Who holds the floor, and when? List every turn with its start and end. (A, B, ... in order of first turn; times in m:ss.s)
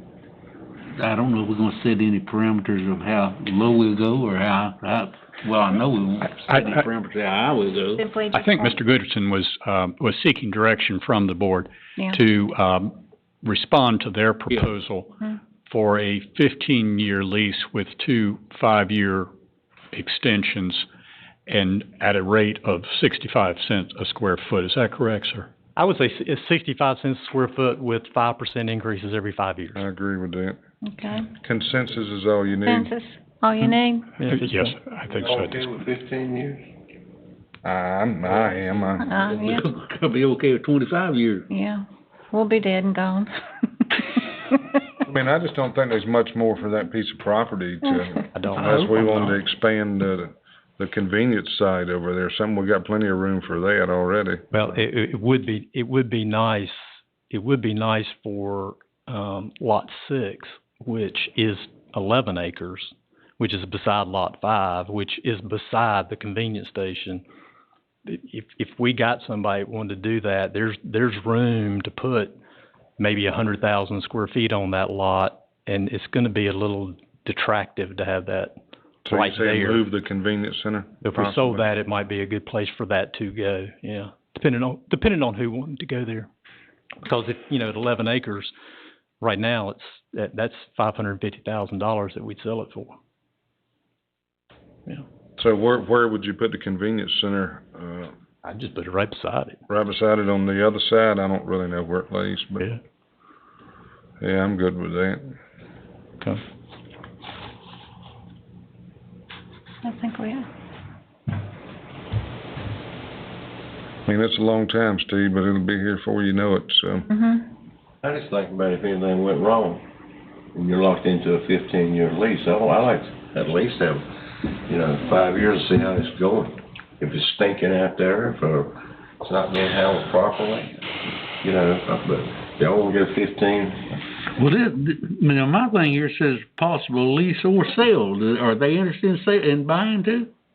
0:00.9-0:08.1 A
0:06.4-0:06.8 B
0:07.9-0:08.8 C
0:08.3-0:19.3 B
0:19.9-0:20.8 B
0:21.5-0:25.5 B
0:25.8-0:29.8 D
0:29.7-0:30.6 E
0:30.8-0:31.3 C
0:31.3-0:32.9 E
0:32.6-0:34.2 C
0:34.2-0:34.7 D
0:34.3-0:35.6 B
0:35.1-0:36.6 F
0:37.6-0:39.2 E
0:39.0-0:39.6 C
0:39.2-0:41.5 A
0:41.5-0:44.8 C
0:45.0-0:54.4 E
0:48.3-0:49.3 D
0:54.5-1:07.2 D
1:08.0-1:12.3 D
1:13.0-1:19.8 D
1:19.0-1:21.6 E
1:21.0-1:26.3 D
1:27.0-1:28.5 D
1:29.2-1:33.0 D
1:35.4-1:38.1 E
1:38.4-1:39.6 D
1:39.7-1:42.7 E
1:44.2-1:45.3 E
1:49.8-1:50.5 C
1:54.0-1:57.1 E
1:57.1-1:57.4 C
1:58.0-1:59.8 F
2:00.5-2:10.8 F
2:11.4-2:13.9 F
2:14.3-2:20.3 A